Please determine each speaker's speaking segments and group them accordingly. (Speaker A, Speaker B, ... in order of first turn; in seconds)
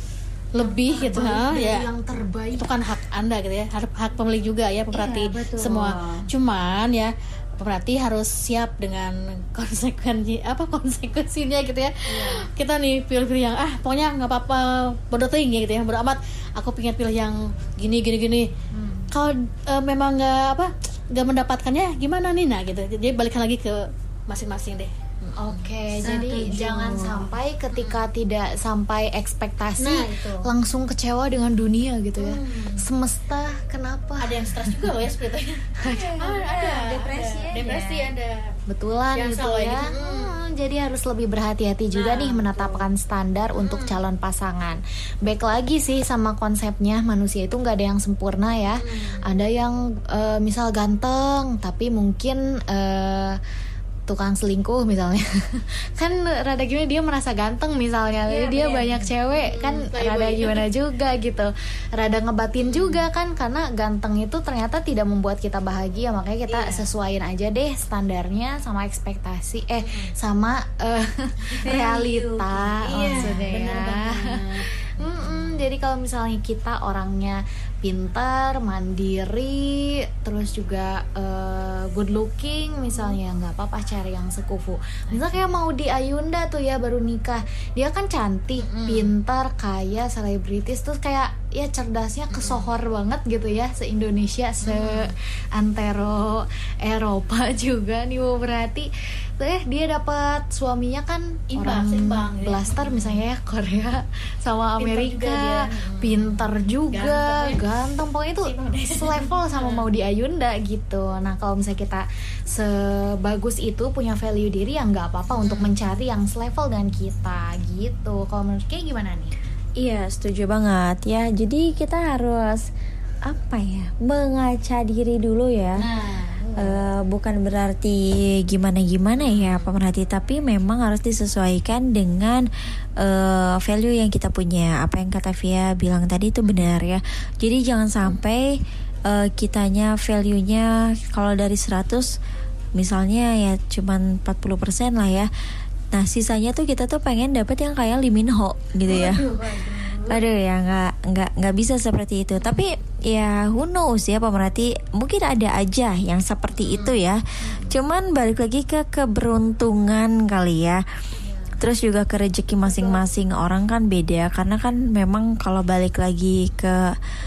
Speaker A: 0.5-1.9, 2.5-18.5, 19.1-25.6, 27.7-28.1, 29.8-30.5, 32.2-32.9, 34.2-38.5, 39.1-40.4, 41.9-42.9, 43.5-44.0, 48.8-49.2, 58.3-60.7, 62.6-63.1, 66.5-66.8, 69.8-70.1, 72.8-75.7, 85.1-85.4, 88.6-89.1, 92.3-92.7, 94.6-95.1, 101.5-103.2, 104.8-107.6, 108.4-109.8, 115.3-115.7, 125.7-126.7, 129.2-129.7, 148.9-150.1, 156.7-156.9
Speaker B: 0.6-2.8, 12.1-12.4, 18.7-19.1, 25.4-34.9, 35.8-36.2, 38.7-53.4, 54.1-119.3
Speaker C: 4.9-6.3, 26.0-27.2, 35.9-38.1, 71.7-73.5, 119.8-122.7, 123.2-125.9, 126.5-132.4, 133.0-142.1, 142.7-145.3, 145.9-149.2, 150.0-160.8, 161.6-167.0